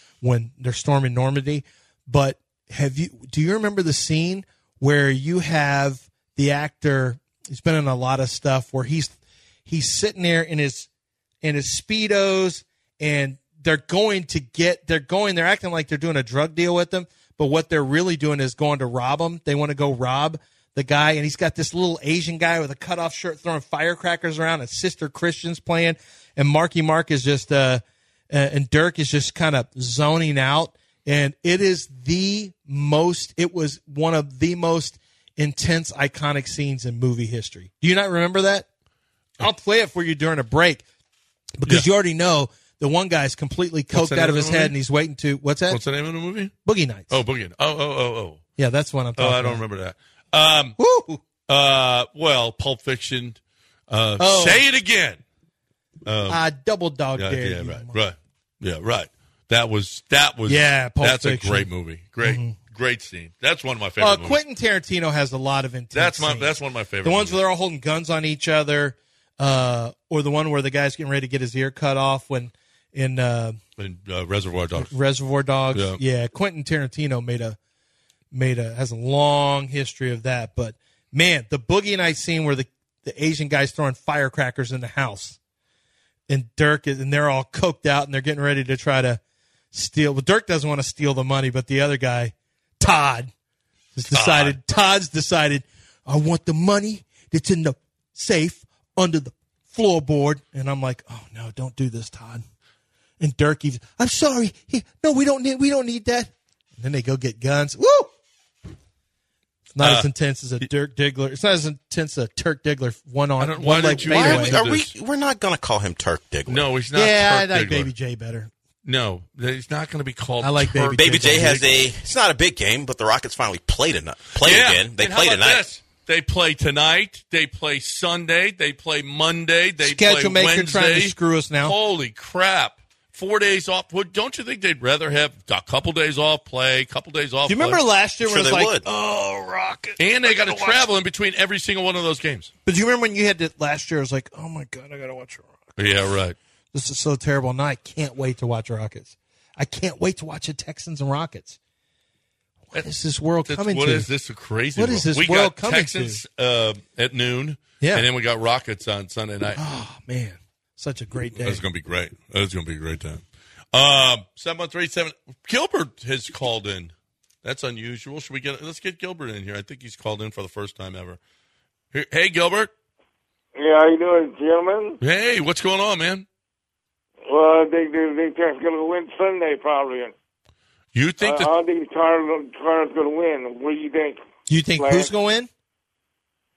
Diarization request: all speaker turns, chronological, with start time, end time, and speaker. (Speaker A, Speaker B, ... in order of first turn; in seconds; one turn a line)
Speaker A: 0.2-10.9
Speaker A: 11.4-38.6
Speaker A: 39.4-40.8
Speaker A: 41.6-45.8
Speaker B: 43.9-44.7
Speaker B: 45.7-46.5
Speaker A: 46.6-47.2
Speaker B: 47.1-48.4
Speaker A: 48.6-49.6
Speaker B: 49.2-50.8
Speaker A: 50.8-51.2
Speaker B: 51.5-55.2
Speaker A: 54.2-54.6
Speaker B: 56.0-56.4
Speaker A: 56.3-58.0
Speaker B: 57.2-64.4
Speaker A: 60.5-61.7
Speaker A: 62.2-62.5
Speaker A: 64.0-73.6
Speaker B: 65.9-67.4
Speaker B: 73.8-74.9
Speaker A: 74.8-77.6
Speaker B: 75.7-76.0
Speaker A: 78.3-85.4
Speaker A: 86.3-89.2
Speaker A: 89.7-93.3
Speaker A: 93.9-102.4
Speaker B: 94.1-94.6
Speaker A: 103.2-108.1
Speaker A: 109.7-114.6
Speaker B: 109.8-110.1
Speaker B: 113.4-114.9
Speaker C: 114.0-116.7
Speaker B: 116.5-117.9
Speaker A: 116.9-118.5
Speaker B: 118.8-121.8
Speaker A: 120.4-121.6
Speaker C: 120.9-125.6
Speaker B: 124.4-137.8
Speaker A: 129.8-131.7
Speaker A: 137.5-140.8
Speaker C: 138.2-138.8
Speaker B: 140.0-142.5
Speaker A: 142.7-145.8
Speaker B: 145.8-146.3
Speaker A: 146.7-151.6
Speaker A: 152.7-154.1
Speaker B: 153.5-159.6
Speaker A: 154.8-156.2
Speaker A: 157.8-158.1
Speaker A: 159.5-161.6
Speaker B: 161.3-166.9
Speaker B: 167.4-171.2
Speaker B: 171.9-172.7
Speaker D: 173.5-175.0
Speaker B: 175.0-176.2
Speaker D: 177.3-180.1
Speaker B: 180.9-181.5
Speaker D: 181.2-184.2
Speaker A: 184.5-185.5
Speaker D: 184.8-185.1